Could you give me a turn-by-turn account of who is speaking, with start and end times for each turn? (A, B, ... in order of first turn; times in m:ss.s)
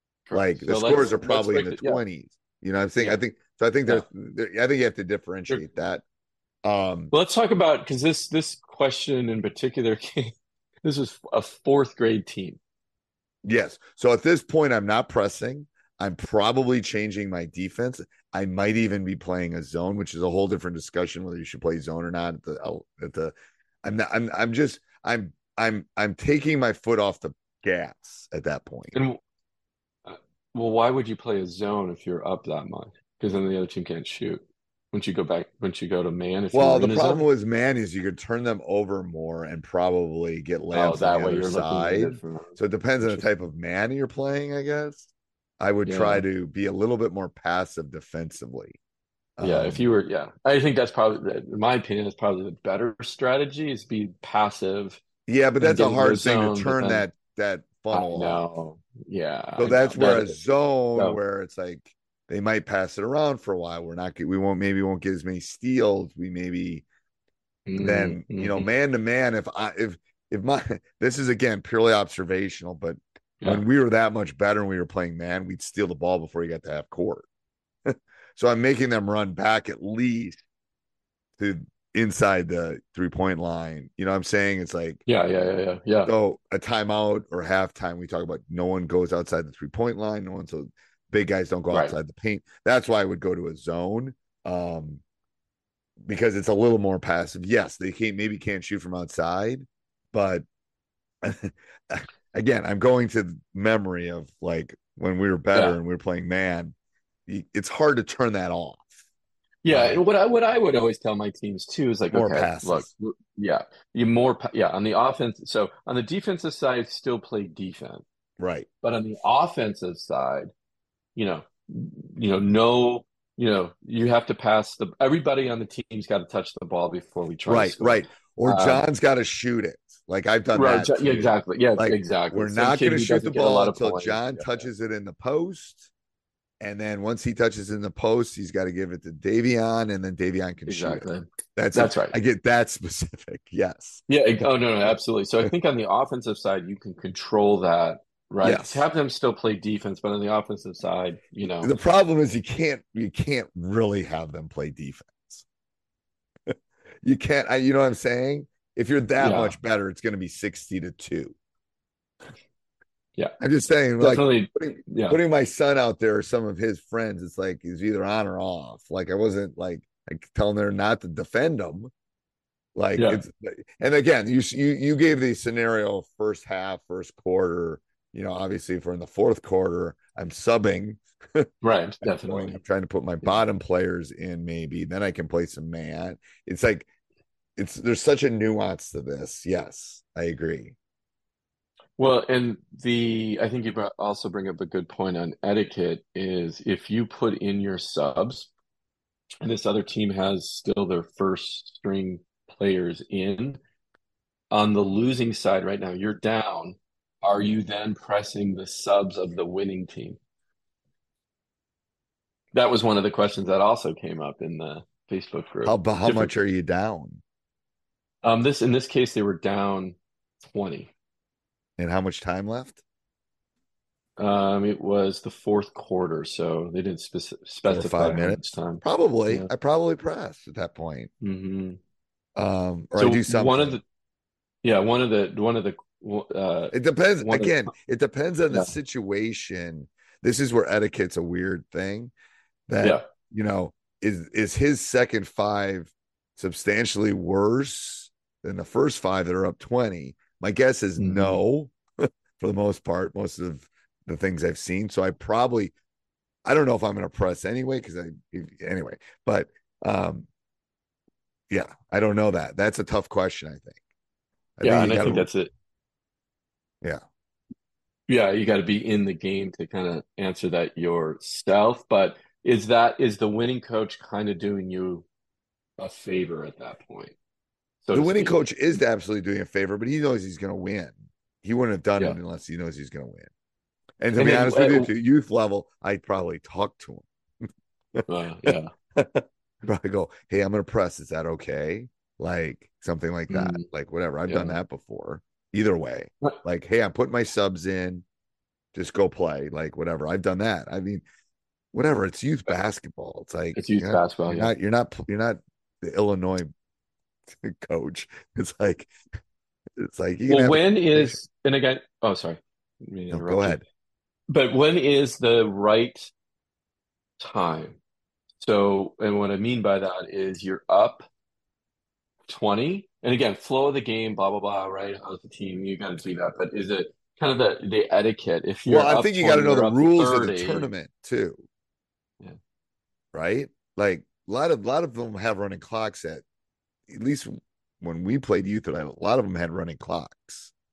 0:00.3-0:02.0 A
0:00.3-0:06.0 B
0:06.6-0:07.1 B
0:07.1-0:10.3 A
0:10.8-0:12.6 A
0:13.4-0:29.0 B
0:28.9-0:29.2 A
0:30.0-0:37.2 A
0:36.5-0:45.1 B
0:40.7-0:43.2 A
0:45.6-0:48.8 B
0:45.8-0:46.2 A
0:49.4-0:49.9 B
0:49.4-0:55.0 A
0:55.3-0:58.4 B
0:55.6-0:57.0 A
0:57.9-1:00.4 A
0:59.6-1:06.8 B
1:07.7-1:08.6 A
1:07.8-1:17.2 B
1:17.9-1:20.4 B
1:21.4-1:25.0 B
1:25.1-1:26.1 A
1:26.0-1:35.0 B
1:36.0-1:40.4 B
1:41.2-1:46.7 B
1:47.3-1:49.0 B
1:49.6-1:58.0 A
1:49.6-1:50.0 B
1:52.1-1:52.9 B
1:58.4-1:58.7 B
1:58.8-2:00.5 A
2:01.2-2:08.8 A
2:07.4-2:15.9 B
2:10.5-2:14.5 A
2:16.6-2:24.0 B
2:20.7-2:22.2 A
2:24.1-2:31.7 A
2:28.4-2:28.8 B
2:31.6-2:35.4 B
2:37.0-2:41.4 B
2:39.2-2:39.5 A
2:43.4-2:51.9 B
2:44.0-2:45.2 A
2:52.7-3:01.5 B
2:53.0-2:53.2 A
3:01.6-3:02.6 A
3:02.1-3:06.9 B
3:07.6-3:10.7 B
3:12.0-3:18.5 A
3:19.4-3:23.6 A
3:24.5-3:30.2 A
3:32.5-3:36.3 A
3:35.6-3:37.2 B
3:38.2-3:40.9 A
3:41.8-3:42.8 B
3:44.2-3:49.5 A
3:47.6-3:51.1 B
3:51.2-3:51.8 A
3:52.4-3:53.8 B
3:53.0-3:53.8 A
3:54.6-3:57.7 A
3:56.7-4:02.1 B
4:02.7-4:15.7 B
4:11.0-4:11.4 A
4:16.4-4:20.3 B
4:21.5-4:23.8 B
4:24.6-4:25.3 B
4:24.6-4:25.5 A
4:28.1-4:35.0 A
4:35.8-4:37.1 A
4:37.8-4:38.4 A
4:37.9-4:43.3 B
4:44.0-4:47.0 B
4:44.2-4:44.9 A
4:48.0-4:58.0 B
4:48.1-4:48.7 A
4:53.3-4:53.6 A
4:54.3-4:54.6 A
4:58.7-5:01.0 B
5:01.7-5:06.5 B
5:03.5-5:04.5 A
5:07.3-5:08.9 B
5:09.8-5:11.2 B
5:10.3-5:13.6 A
5:13.1-5:13.6 B
5:14.3-5:16.1 A
5:17.2-5:17.8 A
5:18.4-5:21.0 A
5:22.3-5:30.7 A
5:28.6-5:31.4 B
5:33.1-5:36.2 B
5:36.9-5:40.5 B